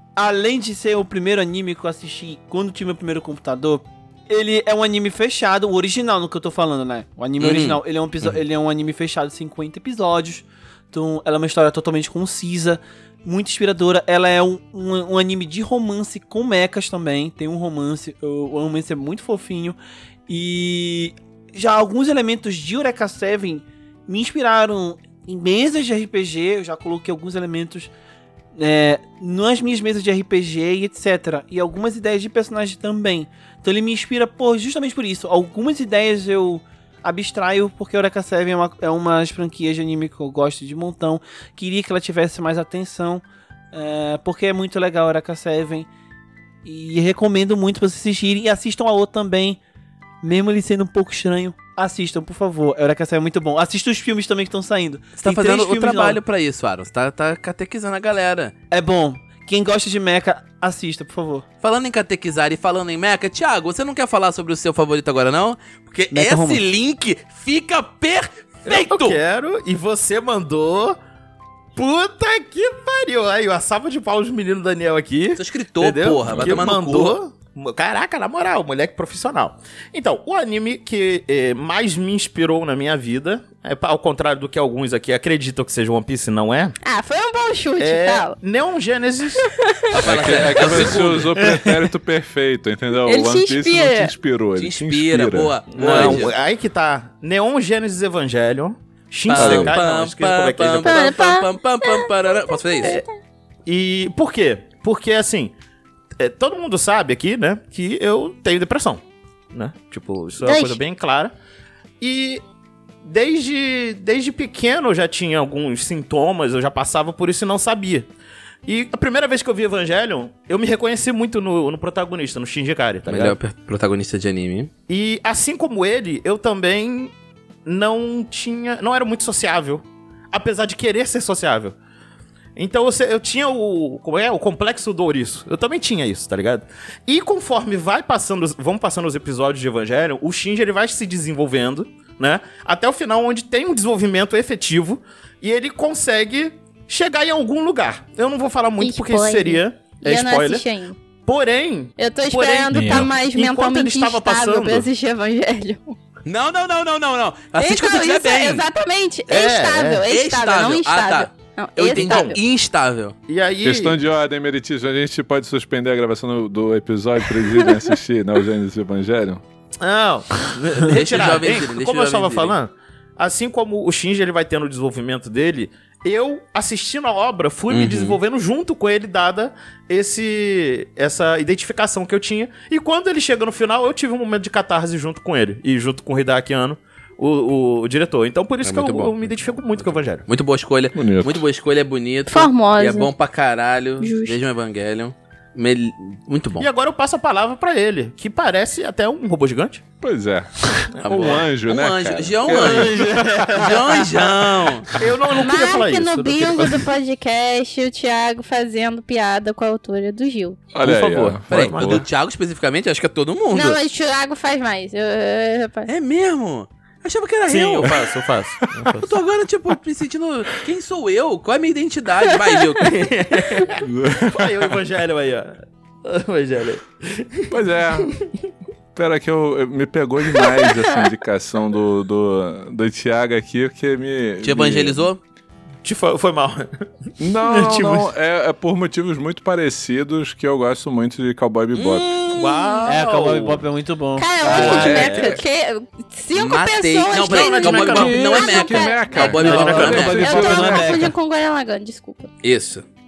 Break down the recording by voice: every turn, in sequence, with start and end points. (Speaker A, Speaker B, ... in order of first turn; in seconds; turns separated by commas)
Speaker A: 0.2-19.8, Speaker B: 7.4-7.8, Speaker A: 20.3-27.9, Speaker A: 28.6-45.9, Speaker A: 46.6-49.6, Speaker A: 50.2-56.2, Speaker B: 55.2-58.5, Speaker A: 58.7-61.5, Speaker B: 61.6-69.2, Speaker A: 66.1-66.6, Speaker C: 68.7-71.0, Speaker C: 71.8-86.8, Speaker B: 75.4-77.2, Speaker D: 76.2-76.7, Speaker E: 86.8-88.3, Speaker C: 87.8-89.5, Speaker E: 89.4-90.0, Speaker B: 90.0-91.3, Speaker D: 90.0-96.3, Speaker C: 90.2-91.2, Speaker A: 91.4-91.8, Speaker E: 93.0-94.1, Speaker B: 94.6-96.3, Speaker C: 95.7-101.2, Speaker B: 99.3-103.0, Speaker D: 99.3-99.8, Speaker E: 100.8-103.1, Speaker C: 103.7-105.5, Speaker C: 106.2-111.3, Speaker E: 110.4-110.8, Speaker C: 112.0-112.4, Speaker C: 113.0-118.1, Speaker C: 118.7-123.4, Speaker B: 123.1-124.7, Speaker C: 124.9-127.1, Speaker C: 127.7-131.8, Speaker C: 132.6-150.7, Speaker E: 148.8-151.0, Speaker C: 151.2-154.9, Speaker E: 152.0-156.0, Speaker A: 152.7-153.1, Speaker B: 156.2-158.7, Speaker E: 157.6-162.4, Speaker C: 159.3-160.0, Speaker B: 160.1-163.2, Speaker C: 161.9-162.4, Speaker C: 163.3-164.0, Speaker D: 163.6-169.4, Speaker C: 169.8-190.2, Speaker B: 170.8-172.6, Speaker B: 177.7-178.2, Speaker B: 188.6-196.7, Speaker D: 190.9-191.4, Speaker E: 192.3-193.1, Speaker E: 194.0-194.4, Speaker C: 196.6-199.8, Speaker D: 200.0-203.7, Speaker C: 200.9-201.5, Speaker B: 201.0-204.9, Speaker A: 202.5-203.8, Speaker C: 203.9-206.9, Speaker E: 205.4-210.7, Speaker D: 210.7-212.1, Speaker C: 210.8-212.0, Speaker B: 210.8-213.8, Speaker E: 213.5-215.9, Speaker B: 215.9-218.1, Speaker C: 217.5-219.1, Speaker B: 219.0-223.0, Speaker E: 222.4-222.9, Speaker C: 222.8-228.2, Speaker D: 223.8-224.8, Speaker D: 227.5-228.1, Speaker D: 228.9-235.1, Speaker B: 234.4-235.2, Speaker C: 235.8-236.7, Speaker D: 237.2-242.1, Speaker C: 237.4-238.1, Speaker B: 241.7-242.9, Speaker C: 242.3-243.6, Speaker A: 242.8-245.0, Speaker E: 244.2-252.3, Speaker C: 244.5-245.4, Speaker B: 244.5-245.2, Speaker D: 244.6-245.4, Speaker B: 246.3-250.5, Speaker C: 247.1-248.4, Speaker D: 247.9-251.1, Speaker A: 249.2-251.1, Speaker C: 249.4-250.1, Speaker B: 252.4-252.8